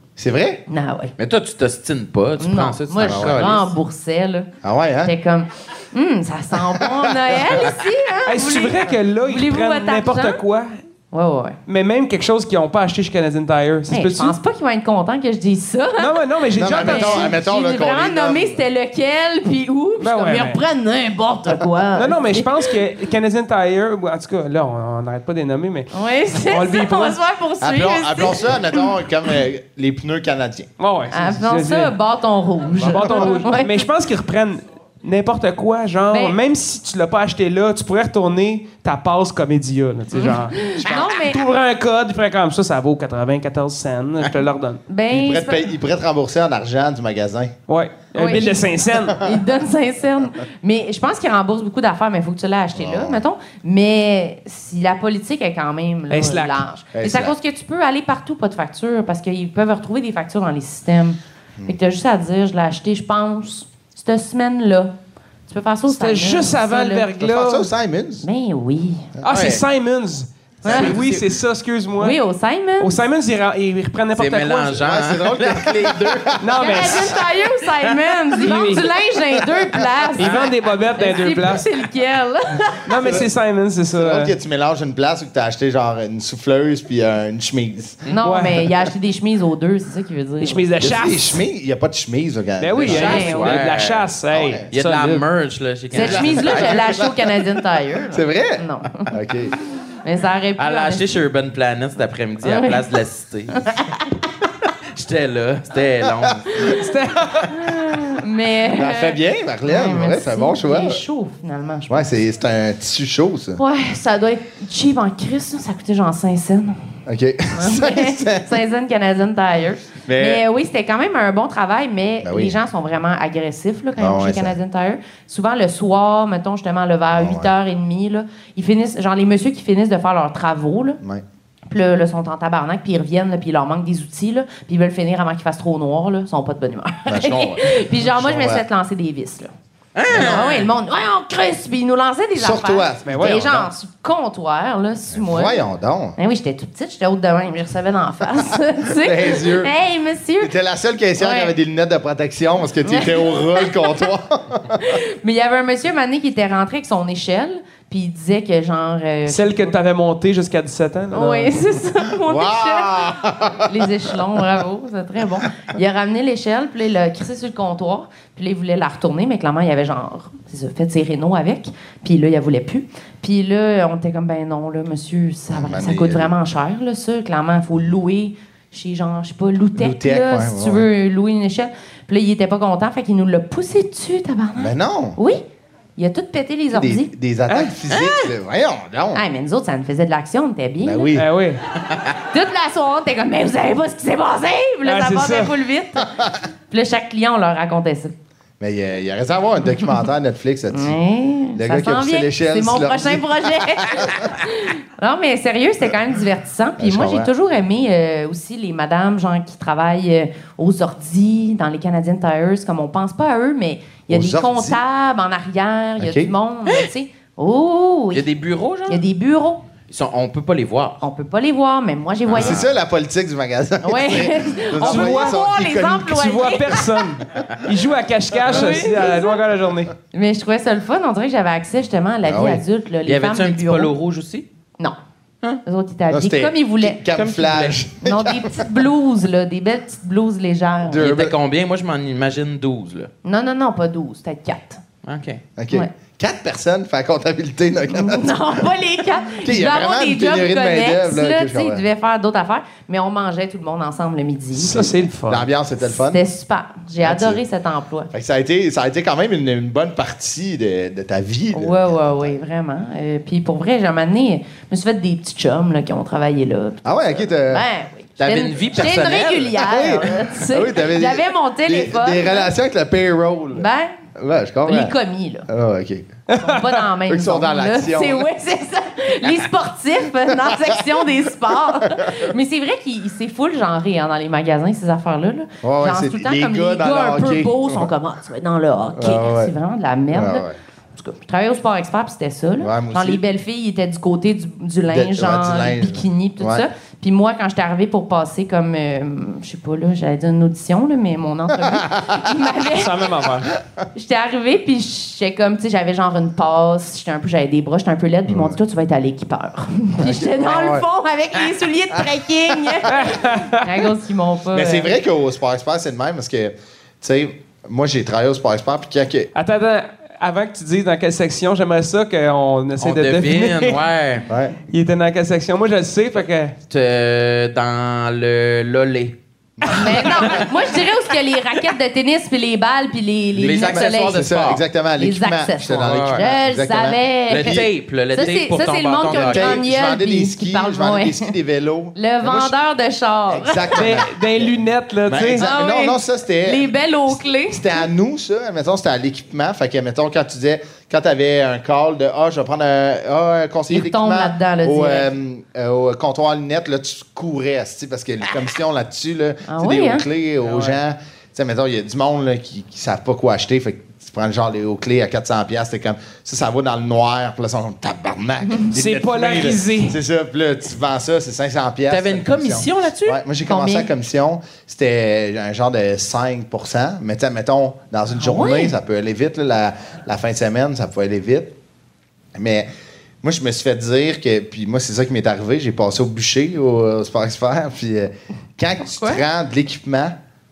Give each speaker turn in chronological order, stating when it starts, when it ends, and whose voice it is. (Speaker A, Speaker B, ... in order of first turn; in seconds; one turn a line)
Speaker A: 0.2-0.6
Speaker B: 0.7-1.1
Speaker C: 1.2-3.7
Speaker B: 2.4-4.5
Speaker A: 3.0-3.5
Speaker A: 4.6-5.1
Speaker B: 5.0-10.4
Speaker A: 6.5-7.7
Speaker D: 8.2-10.8
Speaker B: 11.1-11.6
Speaker D: 11.7-14.4
Speaker B: 13.9-22.7
Speaker D: 16.0-17.3
Speaker A: 16.6-18.6
Speaker D: 20.0-20.6
Speaker D: 21.9-27.2
Speaker B: 25.9-28.9
Speaker A: 27.6-30.7
Speaker D: 30.8-31.9
Speaker B: 31.1-33.8
Speaker D: 32.8-44.8
Speaker A: 32.8-33.2
Speaker B: 36.1-36.4
Speaker B: 40.1-41.4
Speaker B: 44.9-45.7
Speaker A: 45.1-47.5
Speaker D: 47.7-49.2
Speaker B: 48.1-64.9
Speaker A: 48.9-49.4
Speaker A: 52.7-53.2
Speaker D: 56.1-56.6
Speaker A: 56.9-57.4
Speaker B: 65.5-67.1
Speaker D: 65.9-67.7
Speaker A: 67.2-68.2
Speaker B: 68.2-69.1
Speaker D: 69.2-72.2
Speaker C: 69.3-69.6
Speaker B: 70.6-70.9
Speaker A: 70.7-71.0
Speaker C: 70.7-71.2
Speaker B: 72.0-73.0
Speaker D: 72.8-74.8
Speaker C: 74.1-76.4
Speaker A: 74.8-77.1
Speaker D: 76.4-77.1
Speaker B: 76.6-83.1
Speaker D: 78.3-78.9
Speaker A: 79.7-80.4
Speaker D: 80.2-81.7
Speaker D: 82.8-84.3
Speaker A: 83.0-83.3
Speaker A: 83.9-88.0
Speaker B: 88.1-90.7
Speaker D: 88.2-88.7
Speaker D: 90.4-91.4
Speaker A: 90.8-93.3
Speaker D: 92.6-95.2
Speaker C: 92.8-94.1
Speaker B: 92.8-93.5
Speaker A: 94.3-94.7
Speaker C: 94.7-96.9
Speaker B: 95.9-99.1
Speaker A: 95.9-97.4
Speaker A: 98.1-99.5
Speaker B: 100.0-101.1
Speaker C: 100.6-103.8
Speaker B: 102.4-102.8
Speaker B: 103.6-104.0
Speaker C: 104.9-106.7
Speaker A: 106.0-106.7
Speaker D: 106.6-107.6
Speaker B: 107.5-112.1
Speaker A: 108.7-111.0
Speaker A: 111.9-113.6
Speaker B: 113.6-116.9
Speaker A: 117.0-118.5
Speaker B: 117.5-131.0
Speaker A: 120.0-120.4
Speaker A: 122.2-122.6
Speaker A: 124.0-124.5
Speaker A: 127.1-127.5
Speaker B: 131.7-139.5
Speaker A: 137.1-138.6
Speaker C: 139.9-140.7
Speaker A: 140.1-140.4
Speaker B: 140.1-145.6
Speaker A: 142.4-143.7
Speaker D: 143.1-143.5
Speaker A: 145.1-146.2
Speaker B: 146.2-150.5
Speaker A: 148.8-149.7
Speaker A: 150.4-155.0
Speaker B: 151.2-151.5
Speaker B: 152.8-154.1
Speaker B: 154.8-159.7
Speaker D: 159.3-161.6
Speaker B: 161.1-185.4
Speaker A: 162.2-164.4
Speaker A: 175.5-176.3
Speaker A: 179.8-180.9
Speaker A: 184.6-185.2
Speaker B: 185.9-187.1
Speaker A: 186.7-189.2
Speaker D: 187.5-187.7
Speaker C: 187.9-188.3
Speaker B: 189.1-191.1
Speaker A: 190.8-191.3
Speaker D: 191.1-191.6
Speaker B: 192.3-196.1
Speaker D: 194.8-195.5
Speaker A: 196.0-196.4
Speaker B: 196.7-198.1
Speaker A: 198.6-201.0
Speaker B: 200.7-218.2
Speaker A: 201.5-204.3
Speaker A: 206.8-207.3
Speaker A: 214.1-214.8
Speaker A: 216.0-216.3
Speaker C: 218.1-219.0
Speaker B: 218.9-219.6
Speaker C: 219.9-221.0
Speaker B: 221.0-222.7
Speaker A: 222.3-226.1
Speaker C: 222.3-222.6
Speaker B: 223.8-227.0
Speaker D: 224.8-225.4
Speaker D: 226.0-229.9
Speaker B: 228.4-229.4
Speaker B: 230.1-233.9
Speaker A: 232.2-232.6
Speaker C: 233.1-234.4
Speaker B: 235.6-237.0
Speaker A: 236.1-238.7
Speaker C: 237.1-237.8
Speaker B: 238.0-241.0
Speaker A: 240.8-241.3
Speaker C: 241.0-243.1
Speaker B: 243.2-244.8
Speaker C: 245.0-245.4
Speaker A: 245.6-248.7
Speaker B: 247.9-255.0
Speaker A: 249.3-251.8
Speaker D: 254.5-255.5
Speaker A: 255.3-256.2
Speaker B: 255.8-258.1
Speaker A: 257.0-257.4
Speaker A: 258.1-262.4
Speaker B: 261.5-272.5
Speaker A: 266.8-267.6
Speaker C: 268.2-269.6
Speaker A: 269.6-274.9
Speaker B: 273.5-274.0
Speaker B: 274.6-275.5
Speaker A: 275.5-276.1
Speaker D: 276.3-276.8
Speaker B: 276.4-303.1
Speaker A: 277.1-278.3
Speaker A: 280.4-280.8
Speaker A: 285.6-287.9
Speaker A: 288.9-289.5
Speaker A: 290.1-290.6
Speaker A: 292.6-293.2
Speaker A: 294.9-296.6
Speaker A: 301.5-302.3
Speaker D: 302.7-303.5
Speaker B: 303.9-314.9
Speaker A: 308.3-308.6
Speaker A: 310.0-310.9
Speaker A: 311.9-313.1
Speaker D: 312.9-313.8
Speaker A: 314.5-319.3
Speaker D: 319.3-323.8
Speaker C: 322.8-324.3
Speaker A: 324.3-324.6
Speaker D: 324.7-326.6
Speaker C: 326.7-329.1
Speaker A: 329.6-330.4
Speaker D: 329.6-330.1
Speaker B: 329.7-334.2
Speaker C: 330.2-330.5
Speaker A: 333.3-337.7
Speaker C: 333.4-334.6
Speaker B: 335.0-341.3
Speaker C: 335.8-336.2
Speaker C: 337.3-339.6
Speaker A: 339.1-342.5
Speaker B: 341.9-344.0
Speaker A: 343.3-381.5
Speaker D: 343.8-345.4
Speaker B: 345.4-347.8
Speaker B: 353.7-355.1
Speaker B: 359.5-360.0
Speaker D: 360.4-360.8
Speaker D: 368.7-370.0
Speaker C: 371.9-373.2
Speaker B: 373.4-373.9
Speaker B: 378.1-378.7
Speaker A: 382.3-382.7
Speaker A: 383.2-390.1